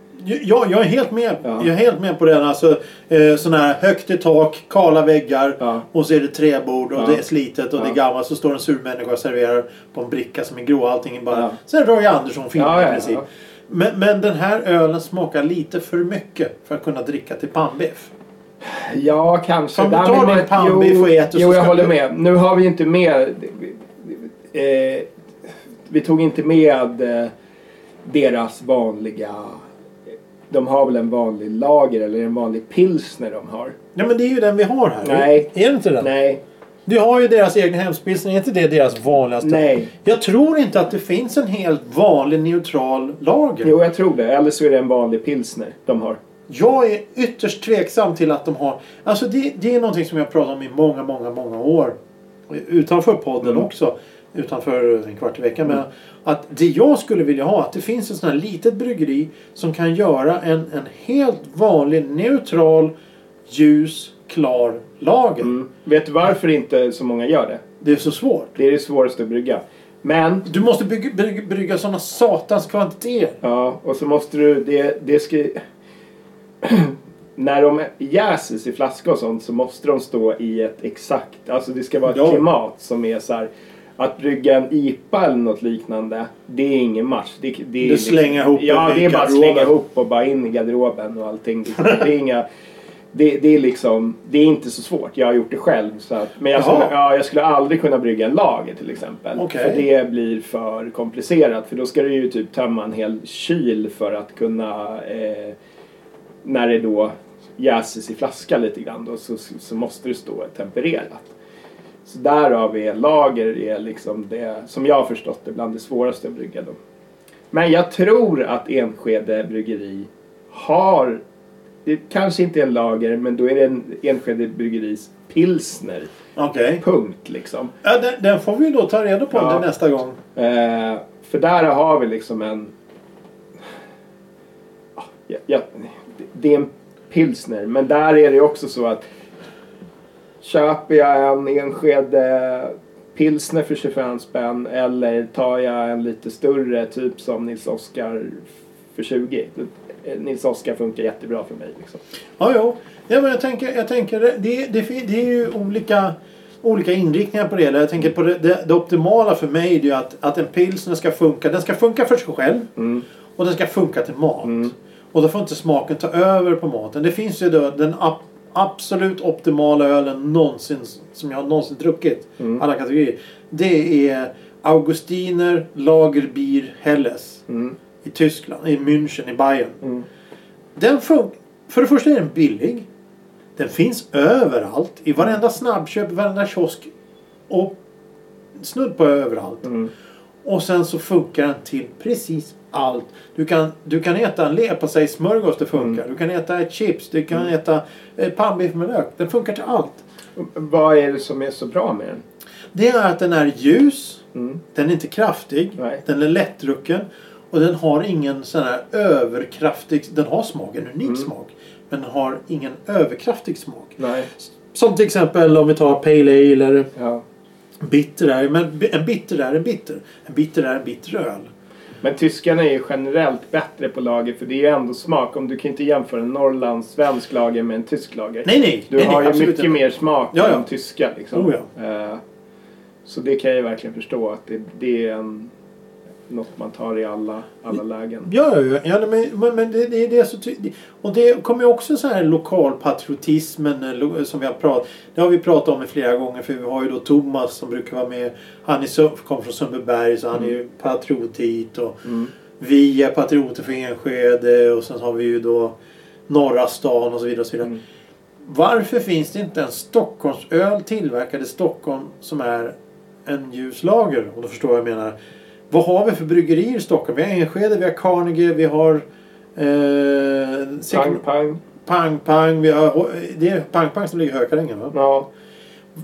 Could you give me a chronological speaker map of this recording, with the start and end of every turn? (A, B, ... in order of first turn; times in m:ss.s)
0:00.2-0:18.1 A
0:11.3-0:11.6 B
0:12.6-0:13.2 B
0:18.6-0:25.1 B
0:19.8-0:21.9 A
0:25.9-0:27.3 B
0:28.0-0:29.6 B
0:30.5-0:33.8 B
0:34.0-0:36.1 A
0:35.0-0:36.4 B
0:36.9-0:43.7 A
0:39.4-0:39.9 B
0:43.6-0:46.2 B
0:46.5-0:52.0 A
0:52.5-1:02.9 A
1:03.5-1:05.5 A
1:05.4-1:07.6 B
1:07.8-1:08.6 A
1:08.6-1:10.5 B
1:10.5-1:13.4 A
1:13.4-1:15.6 B
1:16.6-1:32.4 B
1:22.1-1:22.4 A
1:27.8-1:29.7 A
1:33.1-1:45.6 B
1:36.6-1:36.9 A
1:39.4-1:39.8 A
1:46.4-1:51.3 B
1:52.0-1:56.8 B
1:57.5-2:01.2 B
2:01.8-2:06.1 B
2:06.4-2:06.8 A
2:06.8-2:07.7 B
2:07.8-2:10.2 A
2:09.3-2:09.6 B
2:10.4-2:12.7 B
2:15.0-2:19.0 B
2:20.4-2:32.0 B
2:32.4-2:42.7 A
2:42.8-2:43.0 B
2:43.4-2:57.4 A
2:44.4-2:44.7 B
2:57.5-2:57.8 B
2:58.0-2:59.8 A
3:00.8-3:02.9 A
3:03.6-3:06.9 A
3:07.5-3:07.8 A
3:08.6-3:09.7 A
3:09.6-3:09.9 B
3:10.4-3:20.0 A
3:20.4-3:22.2 B
3:22.7-3:36.9 A
3:24.4-3:24.6 B
3:34.0-3:34.3 B
3:37.0-3:37.2 B
3:37.8-3:41.5 A
3:42.0-3:52.2 B
3:48.4-3:50.7 A
3:51.3-3:51.7 A
3:53.0-3:55.5 B
3:56.3-3:58.3 B
3:58.3-4:12.1 A
4:12.0-4:12.3 B
4:12.6-4:15.8 A
4:16.3-4:17.7 A
4:18.4-4:22.8 A
4:23.3-4:25.2 A
4:25.7-4:29.0 A
4:29.6-4:31.2 A
4:30.9-4:31.6 B
4:31.8-4:34.9 A
4:34.9-4:35.3 B